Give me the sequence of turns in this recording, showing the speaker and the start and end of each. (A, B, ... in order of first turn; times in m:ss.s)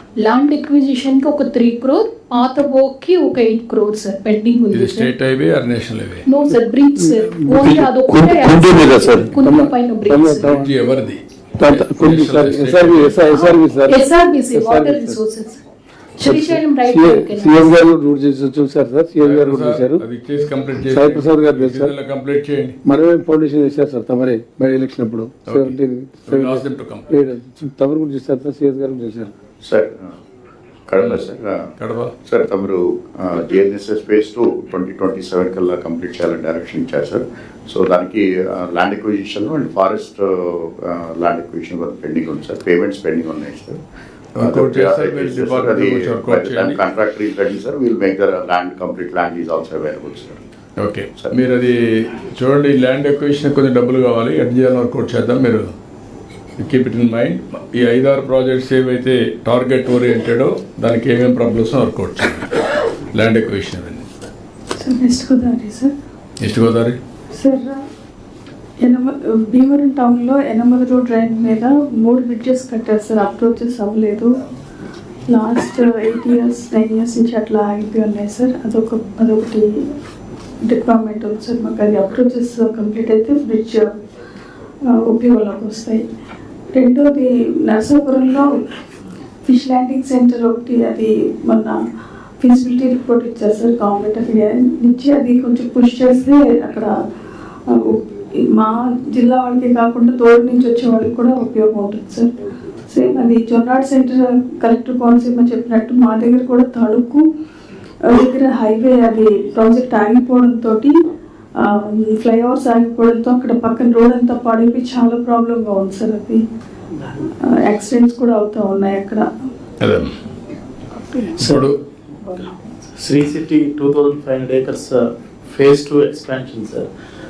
0:00.2-0:05.1 A
0:04.7-0:06.2 B
0:06.2-0:10.5 A
0:07.0-0:10.8 C
0:10.5-0:13.3 B
0:11.6-0:15.2 C
0:13.3-0:15.6 A
0:16.2-0:17.8 A
0:16.2-0:20.0 C
0:19.2-0:22.8 B
0:20.8-0:22.0 C
0:22.8-0:29.3 C
0:25.4-0:27.1 B
0:29.6-0:30.1 D
0:30.9-0:31.7 D
0:31.0-0:31.2 B
0:31.8-0:32.1 B
0:32.2-0:43.8 D
0:44.4-0:46.8 B
0:44.4-0:50.4 D
0:50.8-0:55.7 B
0:56.6-1:02.6 B
1:03.1-1:04.1 B
1:04.8-1:05.9 E
1:06.4-1:07.0 B
1:07.3-1:07.8 E
1:08.8-1:14.4 E
1:15.3-1:19.7 E
1:20.7-1:23.9 E
1:24.9-1:26.0 E
1:26.7-1:28.5 E
1:29.4-1:31.8 E
1:32.4-1:36.9 E
1:37.7-1:42.3 E
1:42.9-1:47.2 E
1:48.1-1:50.9 E
1:51.6-1:56.4 E
1:57.6-1:59.3 E
1:59.8-2:00.1 B
2:01.0-2:01.3 E
2:01.4-2:01.8 B
2:03.0-2:04.9 F
2:05.5-2:06.8 F